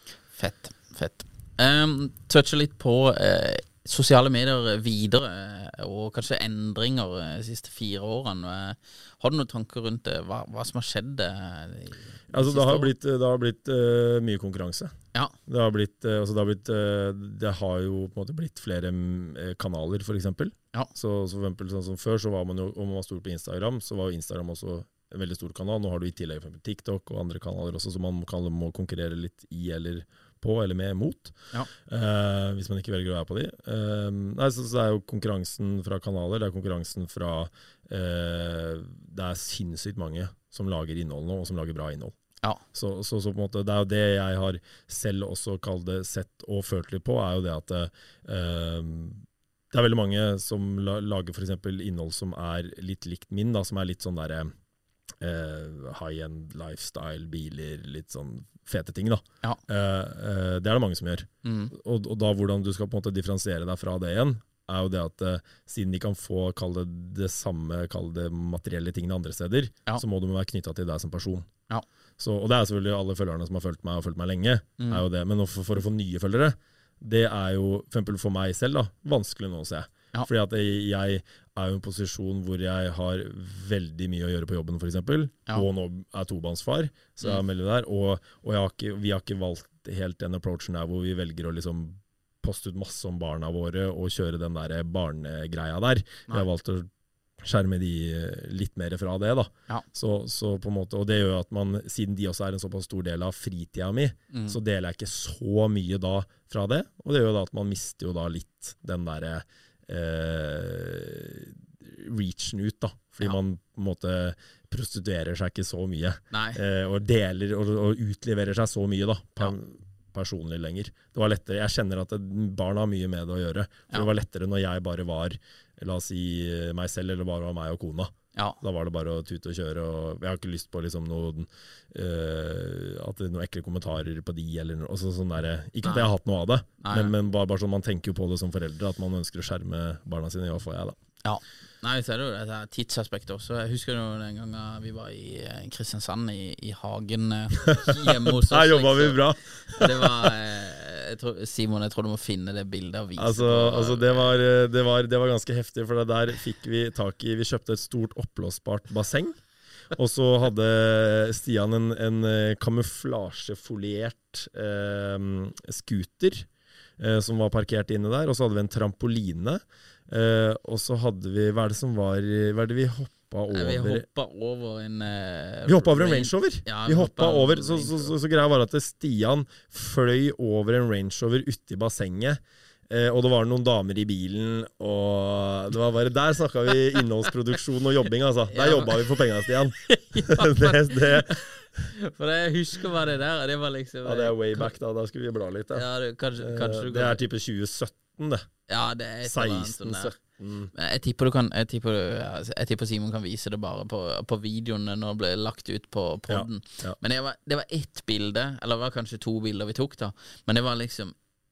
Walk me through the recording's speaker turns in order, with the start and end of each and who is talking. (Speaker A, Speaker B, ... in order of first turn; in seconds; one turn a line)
Speaker A: 0.4-12.9
Speaker B: 12.3-14.9
Speaker B: 15.5-42.1
Speaker B: 42.7-54.5
Speaker B: 55.2-71.5
Speaker A: 61.4-61.7
Speaker B: 72.2-96.9
Speaker A: 74.8-75.0
Speaker B: 97.4-140.9
Speaker A: 104.3-104.6
Speaker A: 116.3-116.6
Speaker A: 136.8-137.1
Speaker A: 141.2-154.4
Speaker B: 147.7-150.3
Speaker B: 153.2-159.4
Speaker B: 159.9-166.5
Speaker B: 167.0-174.1
Speaker A: 173.5-178.1
Speaker B: 175.7-191.4
Speaker A: 188.5-194.7
Speaker B: 194.1-195.8
Speaker A: 195.7-197.2
Speaker B: 196.4-198.5
Speaker A: 198.7-200.2
Speaker B: 199.2-200.7
Speaker A: 200.7-211.1
Speaker B: 206.3-207.0